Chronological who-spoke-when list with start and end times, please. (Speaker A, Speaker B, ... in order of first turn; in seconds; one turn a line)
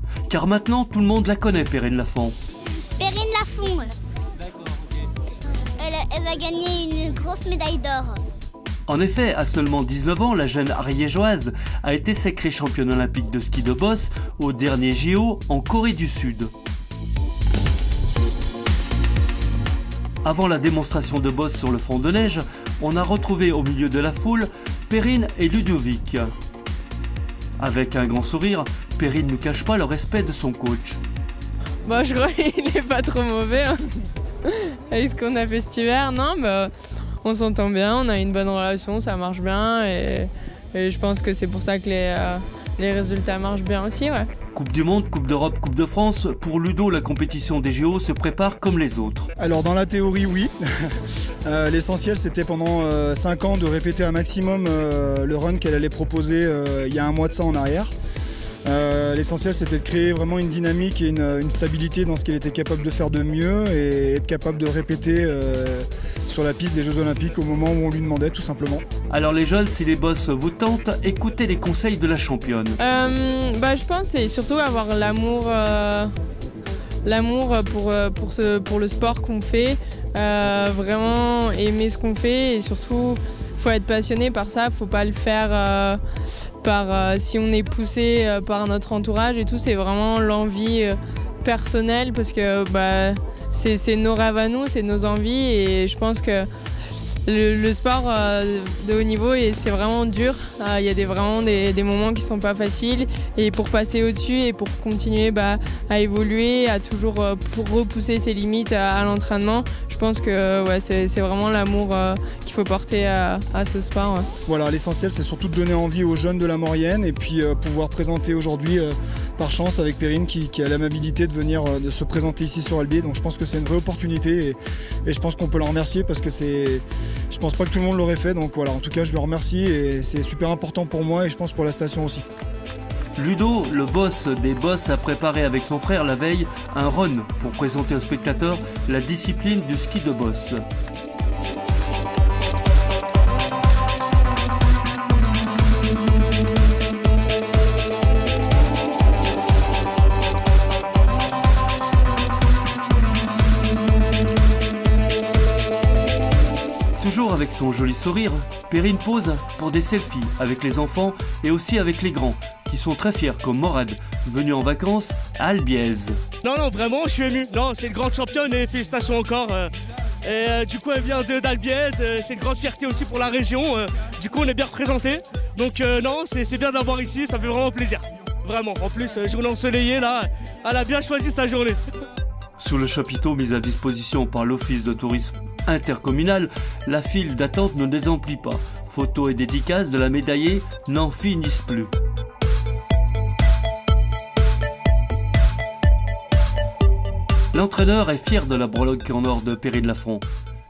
Speaker A: 0.3-2.4
Speaker B: 3.0-3.9
Speaker B: 5.8-8.2
Speaker A: 8.9-16.5
Speaker A: 20.2-26.3
Speaker A: 27.6-31.0
Speaker C: 31.8-36.7
Speaker C: 37.2-44.3
Speaker A: 44.5-49.3
Speaker D: 49.4-57.9
Speaker D: 58.6-68.8
Speaker A: 69.1-72.8
Speaker C: 72.8-76.1
Speaker C: 77.0-86.0
Speaker C: 86.6-96.5
Speaker C: 97.2-114.3
Speaker D: 114.5-132.2
Speaker A: 133.2-140.6
Speaker A: 157.0-166.2
Speaker E: 166.4-169.7
Speaker E: 170.2-181.8
Speaker A: 182.6-191.9
Speaker A: 197.5-200.2